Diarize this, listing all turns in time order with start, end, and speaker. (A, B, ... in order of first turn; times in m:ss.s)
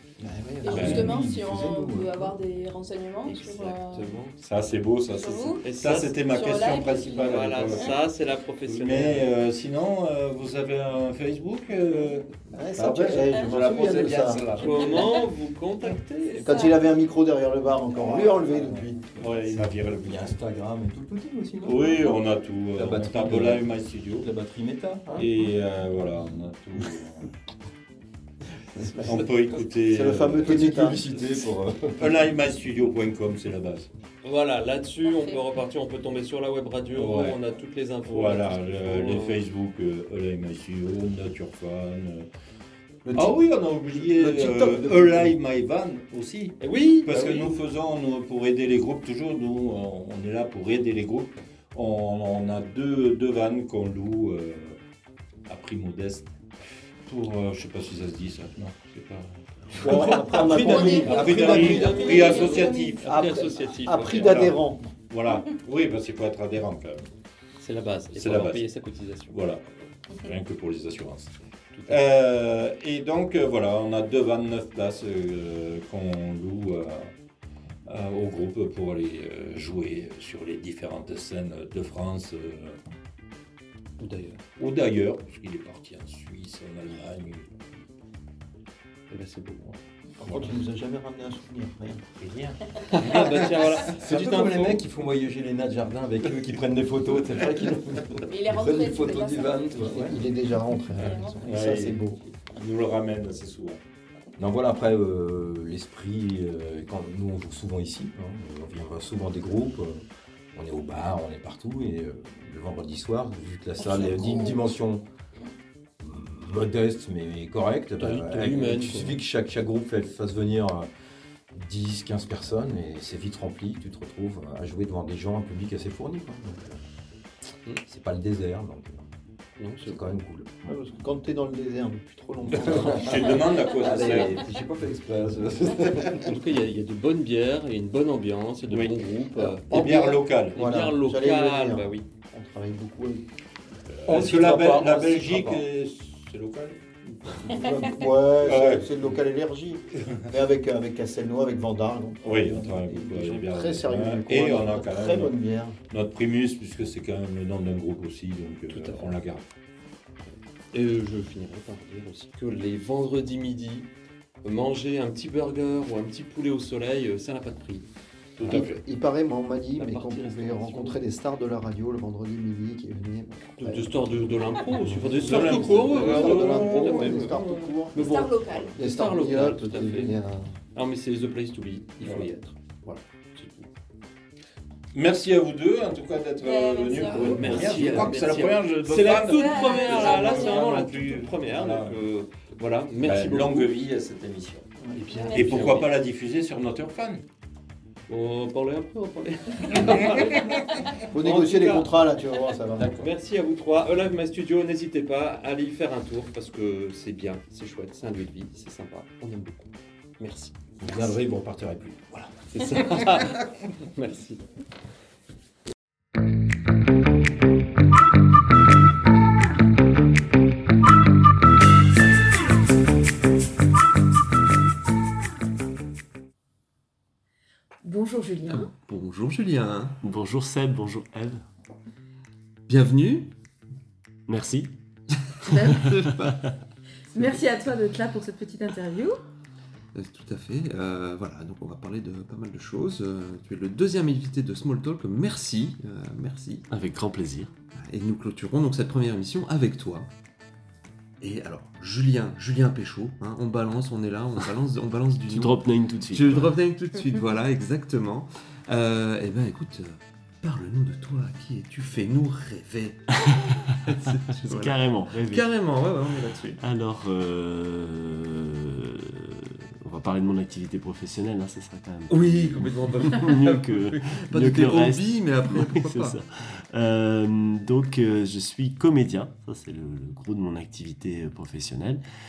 0:00.2-0:02.4 A
0:00.4-0:00.9 B
0:00.6-0:04.0 C
0:00.7-0:01.9 D
0:00.7-0:01.2 E
0:03.2-0:04.4 F
0:04.4-0:08.0 E
0:05.3-0:05.6 C
0:05.6-0:06.4 F
0:06.4-0:07.2 C
0:07.1-0:09.3 F
0:08.6-0:14.9 E
0:12.5-0:14.5 B
0:13.9-0:16.8 F
0:16.4-0:19.3 B
0:18.1-0:20.3 E
0:18.4-0:22.2 A
0:21.6-0:24.3 E
0:22.7-0:25.3 A
0:25.1-0:27.3 E
0:28.7-0:29.1 F
0:29.0-0:30.7 E
0:29.9-0:31.0 B
0:30.4-0:32.2 A
0:32.0-0:33.9 E
0:34.2-0:39.4 F
0:36.9-0:37.4 E
0:38.0-0:42.3 E
0:43.0-0:45.3 B
0:43.1-0:54.8 E
0:46.6-0:47.5 F
0:55.5-0:56.4 E
0:57.0-1:03.1 E
0:59.8-1:04.5 F
0:59.8-1:04.9 B
1:00.5-1:02.0 A
1:02.1-1:02.9 D
1:04.1-1:07.1 E
1:07.6-1:09.4 F
1:08.1-1:08.7 E
1:09.3-1:11.3 E
1:11.7-1:12.0 F
1:11.9-1:17.1 E
1:17.8-1:22.8 E
1:24.0-1:24.4 F
1:24.5-1:27.8 E
1:29.1-1:29.8 F
1:30.2-1:32.0 B
1:30.2-1:30.6 E
1:32.2-1:33.8 E
1:32.9-1:34.8 F
1:33.8-1:40.2 A
1:38.4-1:39.5 D
1:39.7-1:42.2 B
1:41.4-1:43.8 E
1:44.4-1:55.0 A
1:53.8-1:54.6 D
1:56.0-2:00.9 A
1:58.0-1:59.2 F
2:01.5-2:06.8 A
2:07.8-2:09.1 A
2:09.6-2:10.0 F
2:09.8-2:10.5 A
2:10.6-2:14.0 B
2:12.5-2:14.3 E
2:13.7-2:14.6 F
2:13.9-2:16.2 A
2:16.0-2:22.0 F
2:18.7-2:19.0 E
2:19.4-2:23.2 B
2:19.7-2:20.6 E
2:23.9-2:27.6 E
2:24.1-2:25.6 B
2:24.1-2:24.5 F
2:27.4-2:35.8 B
2:28.4-2:28.9 E
2:30.0-2:30.3 E
2:32.2-2:35.4 E
2:35.9-2:39.4 E
2:38.7-2:39.2 F
2:40.7-2:43.9 F
2:44.4-2:48.6 F
2:48.4-2:48.8 E
2:48.5-2:53.9 B
2:49.8-2:51.0 F
2:53.6-2:57.4 F
2:54.8-3:00.5 B
2:54.8-2:57.2 E
2:56.6-2:58.7 D
2:57.9-3:00.2 F
3:00.7-3:03.7 F
3:02.0-3:02.3 E
3:04.9-3:12.0 E
3:07.0-3:13.7 F
3:13.0-3:14.7 E
3:14.9-3:15.9 F
3:15.3-3:17.2 E
3:18.1-3:22.0 F
3:21.1-3:22.9 B
3:22.8-3:23.1 E
3:22.8-3:30.6 F
3:30.8-3:32.4 A
3:32.5-3:34.4 F
3:47.8-3:48.7 D
3:48.5-3:50.0 F
3:50.0-3:51.5 G
3:52.7-3:53.3 F
3:54.3-3:54.7 G
3:55.4-3:56.4 F
3:55.5-3:55.8 D
3:55.8-3:56.6 G
3:57.1-3:59.2 D
3:59.9-4:06.7 F
4:06.7-4:07.5 G
4:07.7-4:10.1 F
4:11.2-4:26.6 F
4:15.3-4:16.6 G
4:23.2-4:23.5 G
4:24.4-4:25.5 G
4:26.6-4:42.0 G
4:32.1-4:36.2 F